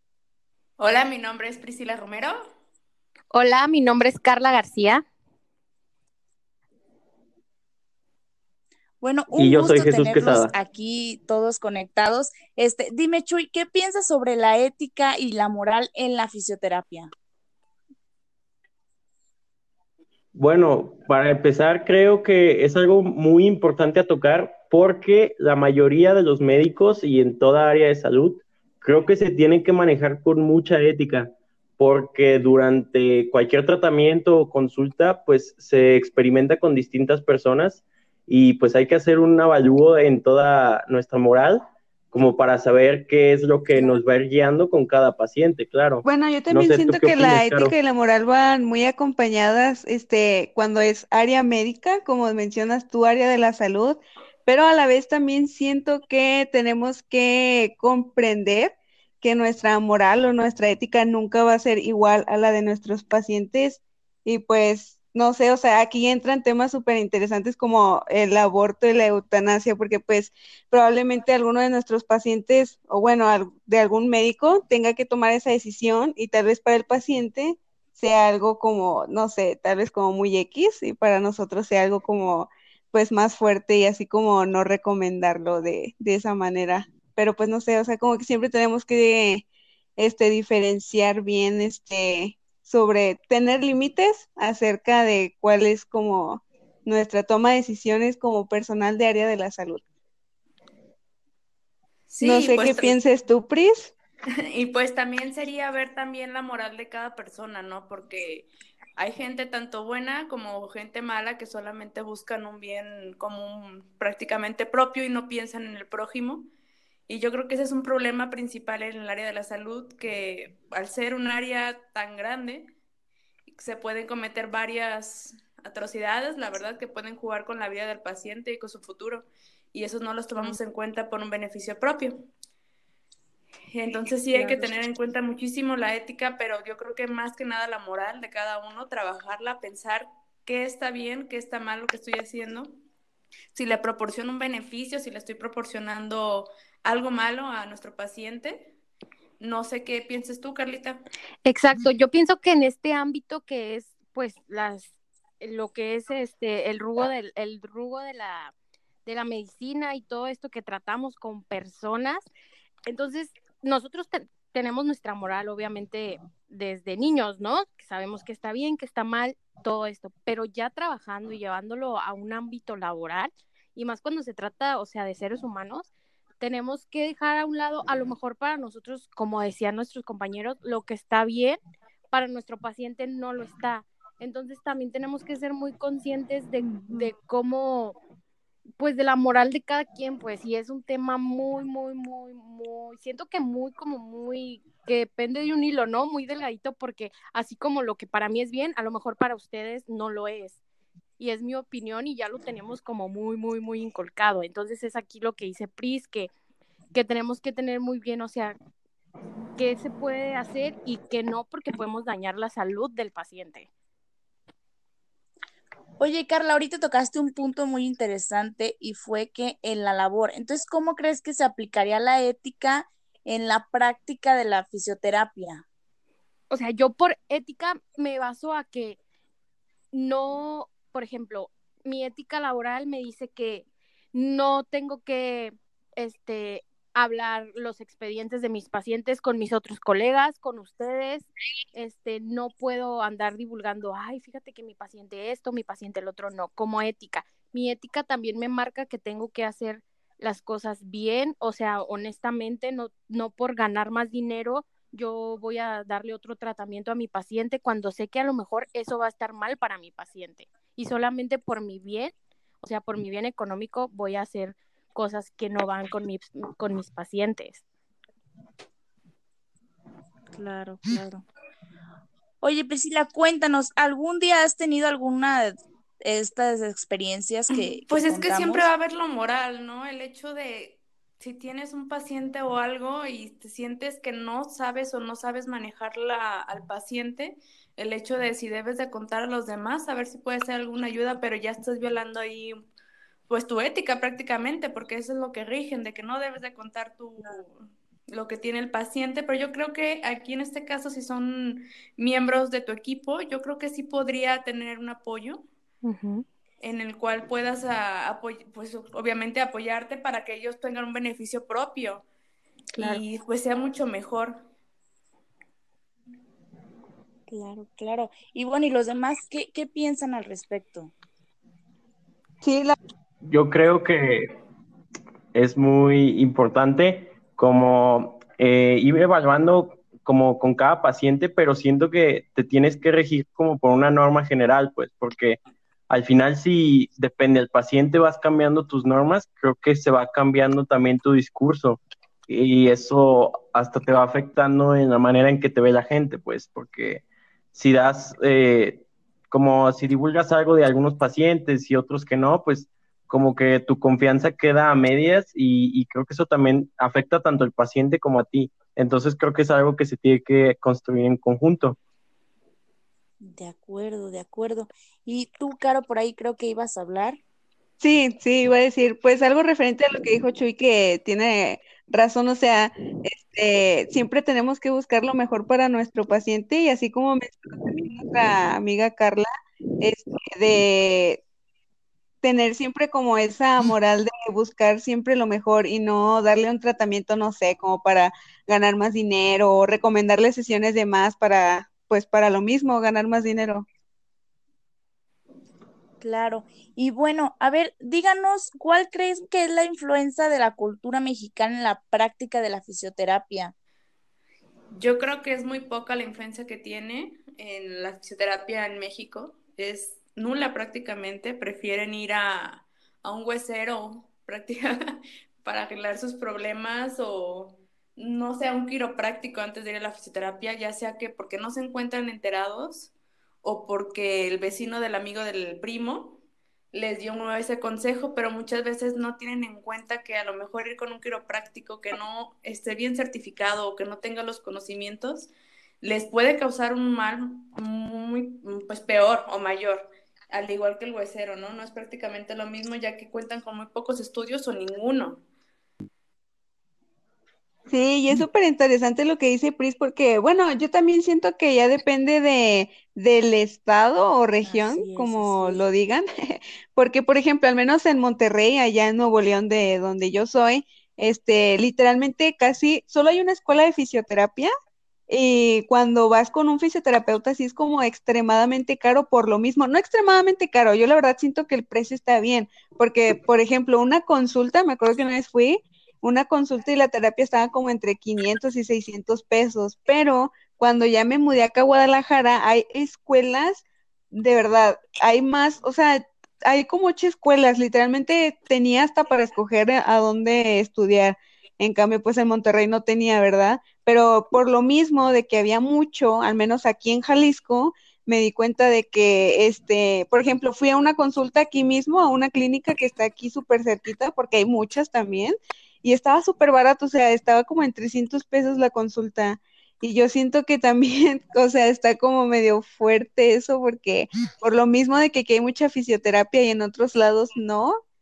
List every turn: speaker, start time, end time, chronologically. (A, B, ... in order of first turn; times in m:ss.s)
0:00.8-0:02.4 A
0:03.3-0:05.0 B
0:09.0-0:17.1 C
0:09.3-0:10.5 D
0:20.3-0:47.7 D
0:46.0-1:29.5 E
1:30.0-1:39.8 E
1:42.1-1:43.0 A
1:42.2-1:43.9 E
1:44.5-1:56.5 A
1:57.1-2:02.7 A
2:03.5-2:12.2 A
2:13.7-2:22.7 A
2:23.5-2:28.7 A
2:29.4-2:31.0 A
2:31.4-2:38.5 B
2:39.1-2:42.3 B
2:42.9-2:55.9 B
2:56.4-3:01.6 B
3:02.1-3:08.0 B
3:08.8-3:20.6 B
3:21.2-3:26.3 B
3:26.9-3:28.6 B
3:29.6-3:33.7 B
3:36.0-3:45.6 C
3:46.5-3:49.0 B
3:49.9-4:27.6 B
4:30.3-4:31.2 C
4:32.4-4:38.7 C
4:37.5-4:52.6 A
4:53.3-5:05.4 A
5:05.8-5:06.2 B
5:06.6-5:12.0 A
5:12.8-5:13.0 E
5:12.8-5:14.4 A
5:17.3-5:20.9 C
5:22.4-5:22.8 E
5:23.3-5:24.3 D
5:25.3-5:35.4 D
5:35.9-6:01.8 D
6:03.2-6:07.2 C
6:07.8-6:19.3 E
6:19.8-6:21.2 E
6:22.2-6:33.7 E
6:36.0-6:43.6 C
6:44.8-6:54.7 A
6:55.4-7:02.9 A
7:03.4-7:06.2 A
7:06.7-7:15.3 A
7:15.8-7:25.2 A
7:27.7-7:44.5 E
7:34.4-7:35.6 C
7:45.1-8:37.8 E